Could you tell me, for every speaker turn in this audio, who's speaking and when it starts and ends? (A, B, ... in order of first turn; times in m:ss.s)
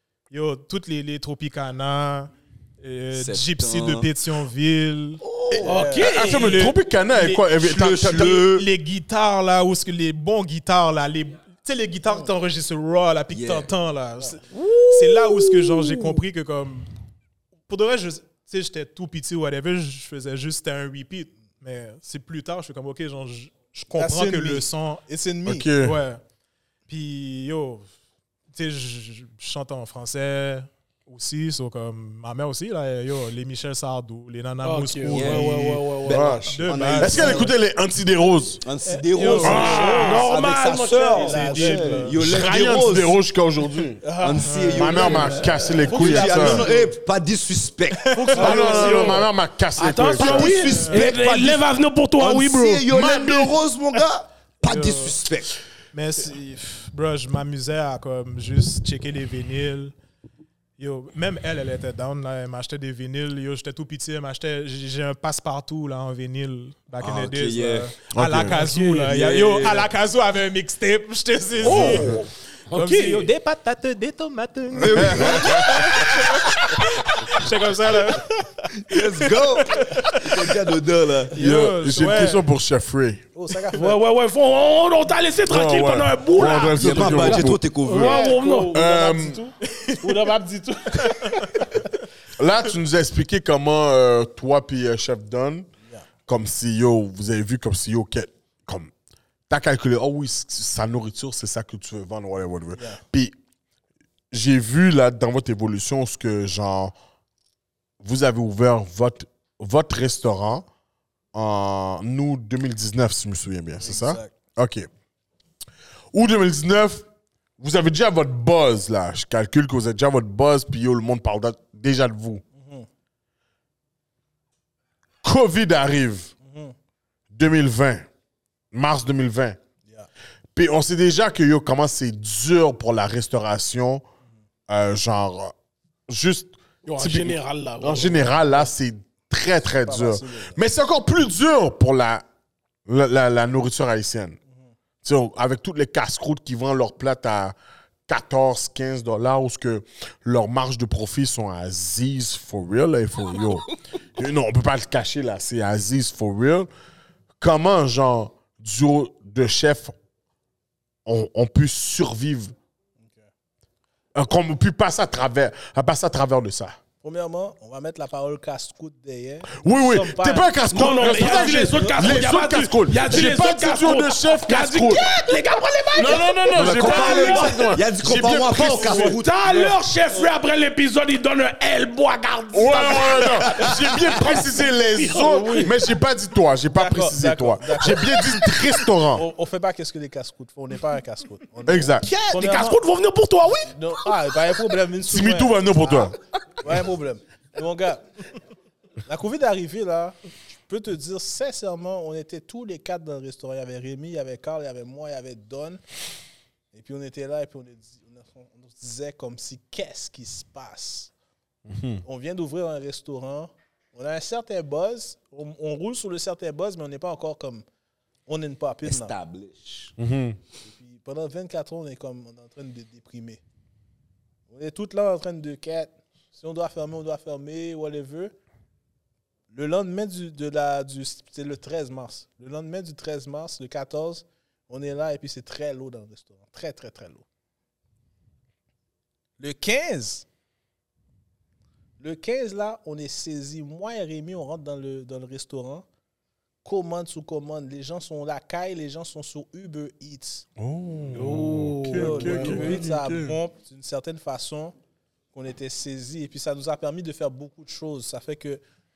0:00.3-0:05.2 A
0:03.1-0:04.1 B
0:05.2-0:05.7 B
0:05.6-0:06.2 C
0:05.6-0:06.6 D
0:06.0-0:08.4 E
0:06.3-0:16.9 A
0:07.6-0:08.7 B
0:13.3-0:13.7 B
0:15.0-0:15.5 D
0:17.7-0:25.0 A
0:24.0-0:25.7 C
0:25.5-0:26.0 E
0:25.8-0:26.2 A
0:26.9-0:27.9 A
0:28.5-0:37.5 A
0:34.6-0:36.4 D
0:35.1-0:37.5 B
0:36.1-0:38.6 E
0:38.6-0:43.2 B
0:39.0-0:40.2 A
0:39.1-0:42.1 D
0:39.3-0:40.2 C
0:39.5-0:39.8 E
0:41.1-0:42.1 C
0:41.8-0:42.2 A
0:42.1-0:44.0 E
0:44.0-0:44.4 D
0:44.1-0:44.4 C
0:44.2-0:49.1 B
0:44.4-0:45.0 A
0:44.7-0:46.7 E
0:45.0-0:46.2 D
0:45.8-0:46.9 C
0:48.0-0:48.4 A
0:48.3-0:49.2 C
0:48.3-0:52.8 D
0:48.4-0:50.7 E
0:50.2-0:51.7 B
0:50.6-0:51.1 A
0:52.2-0:55.5 B
0:52.9-0:53.6 E
0:54.6-0:55.2 A
0:55.9-0:59.9 A
1:00.8-1:18.6 A
1:07.0-1:07.9 B
1:08.1-1:08.6 E
1:08.5-1:09.1 D
1:09.0-1:09.9 B
1:11.6-1:13.3 D
1:11.8-1:12.1 E
1:14.8-1:16.4 B
1:14.9-1:15.8 E
1:18.8-1:21.4 B
1:19.3-1:20.4 A
1:21.3-1:22.5 A
1:21.4-1:23.2 E
1:23.4-1:24.0 C
1:23.7-1:28.8 D
1:25.5-1:27.7 E
1:26.8-1:28.3 B
1:27.9-1:31.9 C
1:28.7-1:29.4 E
1:29.6-1:30.2 A
1:31.0-1:31.8 A
1:32.4-1:35.7 E
1:36.3-1:38.9 E
1:39.5-1:43.3 E
1:44.3-1:46.9 E
1:48.0-1:50.6 E
1:51.3-1:54.9 E
1:53.8-1:54.3 C
1:56.1-1:57.0 E
1:57.6-2:02.4 E
2:02.6-2:02.9 C
2:05.2-2:06.3 E
2:06.4-2:06.8 C
2:07.3-2:08.1 E
2:08.7-2:09.6 E
2:10.6-2:14.0 E
2:14.7-2:15.5 E
2:16.1-2:22.2 E
2:16.8-2:18.4 D
2:19.8-2:20.6 C
2:22.9-2:24.4 E
2:25.0-2:27.6 E
2:28.1-2:36.7 E
2:37.4-2:40.0 E
2:41.1-2:42.6 E
2:43.0-2:43.3 C
2:44.2-2:46.8 E
2:47.0-2:52.2 C
2:49.6-2:55.1 E
2:50.7-2:57.7 D
2:56.0-2:59.2 E
2:56.5-2:59.4 B
2:58.9-3:05.7 D
2:59.0-3:00.3 C
3:02.5-3:09.3 E
3:06.8-3:08.6 C
3:09.1-3:12.8 C
3:11.7-3:12.1 E
3:12.0-3:13.8 D
3:13.7-3:18.0 C
3:15.1-3:16.2 E
3:19.0-3:25.8 C
3:26.7-3:31.1 C
3:31.7-3:32.0 E
3:32.0-3:37.6 C
3:38.3-3:39.1 C
3:38.8-3:39.9 B
3:40.0-3:40.4 E
3:40.6-3:43.4 C
3:44.5-3:48.3 C
3:49.5-3:57.2 C
3:59.4-4:00.3 C
4:02.0-4:05.9 C
4:06.6-4:10.4 C
4:10.6-4:13.4 E
4:11.1-4:12.8 D
4:12.0-4:14.8 C
4:15.3-4:18.6 C